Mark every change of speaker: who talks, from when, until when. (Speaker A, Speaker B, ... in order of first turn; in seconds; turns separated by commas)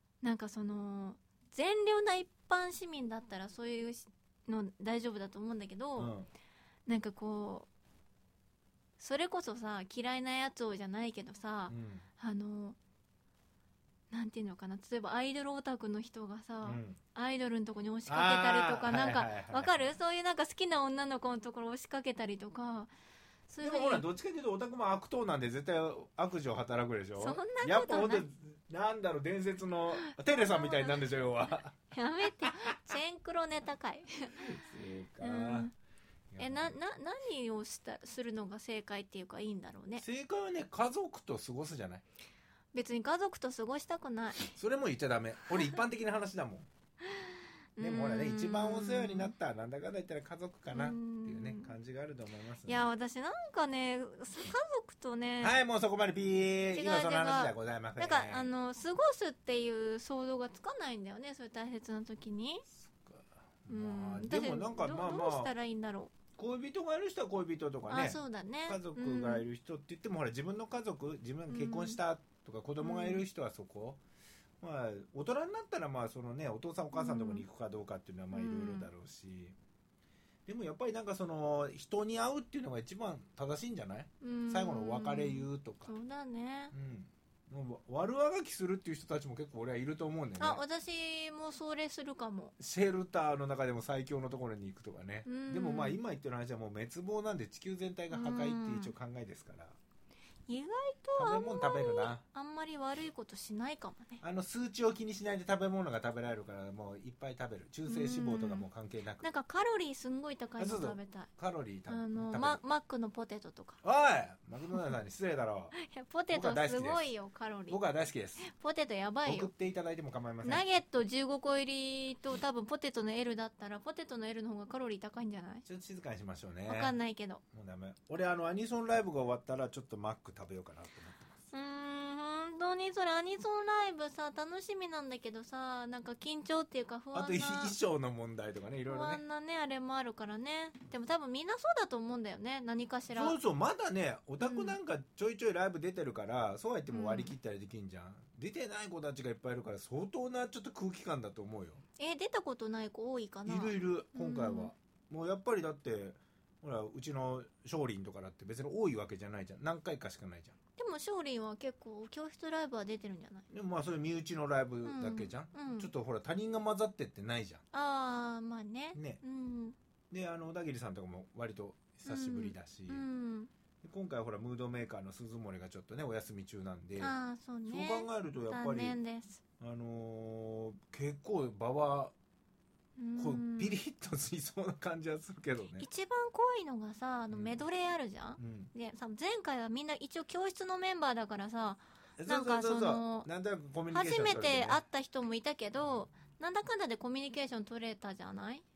Speaker A: 0.2-6.1, Speaker B: 6.0-6.3, Speaker A: 6.9-7.7, Speaker A: 9.0-12.8, Speaker B: 11.7-12.1, Speaker A: 14.1-22.9, Speaker B: 16.6-17.0, Speaker B: 18.1-19.8, Speaker A: 23.5-24.1, Speaker B: 23.6-31.8, Speaker A: 27.2-28.3, Speaker A: 30.0-30.9, Speaker A: 31.9-34.4, Speaker B: 32.4-32.8, Speaker B: 34.4-35.7, Speaker A: 35.2-35.7, Speaker B: 36.3-36.8, Speaker A: 36.4-40.0, Speaker B: 40.0-42.0, Speaker A: 42.7-44.5, Speaker B: 44.5-46.7, Speaker A: 47.2-49.3, Speaker B: 47.8-52.9, Speaker A: 50.7-51.7, Speaker A: 52.7-55.6, Speaker B: 55.4-58.5, Speaker A: 56.7-62.7, Speaker B: 62.8-65.5, Speaker A: 63.7-66.1, Speaker B: 66.4-74.0, Speaker A: 67.9-69.5, Speaker A: 71.5-72.0, Speaker A: 72.8-73.2, Speaker B: 74.6-79.6, Speaker A: 76.9-77.5, Speaker A: 78.3-78.9, Speaker B: 80.5-85.9, Speaker A: 84.2-86.7, Speaker B: 86.7-90.6, Speaker A: 90.4-92.5, Speaker B: 92.6-99.8, Speaker A: 95.3-96.0, Speaker A: 98.1-98.9, Speaker A: 100.5-104.2, Speaker B: 101.2-102.2, Speaker B: 104.2-109.3, Speaker A: 107.9-108.7, Speaker A: 109.2-111.3, Speaker B: 110.6-112.6, Speaker A: 111.9-113.8, Speaker B: 113.8-115.8, Speaker A: 115.8-117.8, Speaker B: 116.3-117.1, Speaker B: 117.7-118.5, Speaker A: 118.4-119.5, Speaker B: 119.2-120.7, Speaker A: 120.4-125.6, Speaker B: 125.7-127.0, Speaker A: 126.7-127.4, Speaker B: 127.5-131.4, Speaker A: 131.5-137.8, Speaker B: 137.1-139.2, Speaker A: 138.9-143.4, Speaker B: 143.1-151.8, Speaker A: 144.4-144.8, Speaker A: 146.9-147.3, Speaker A: 152.0-154.7, Speaker B: 153.5-160.6, Speaker A: 160.8-163.4, Speaker B: 163.5-167.6, Speaker A: 164.8-165.9, Speaker A: 167.7-169.8, Speaker B: 168.9-169.2, Speaker B: 170.1-173.1, Speaker A: 172.1-173.5, Speaker B: 173.8-177.2, Speaker A: 177.0-179.4, Speaker B: 177.7-179.0, Speaker B: 179.6-182.1, Speaker A: 183.0-183.8, Speaker B: 183.2-185.9, Speaker A: 185.8-193.3, Speaker B: 187.3-187.6, Speaker B: 188.4-188.7, Speaker B: 192.2-194.8, Speaker A: 193.9-198.6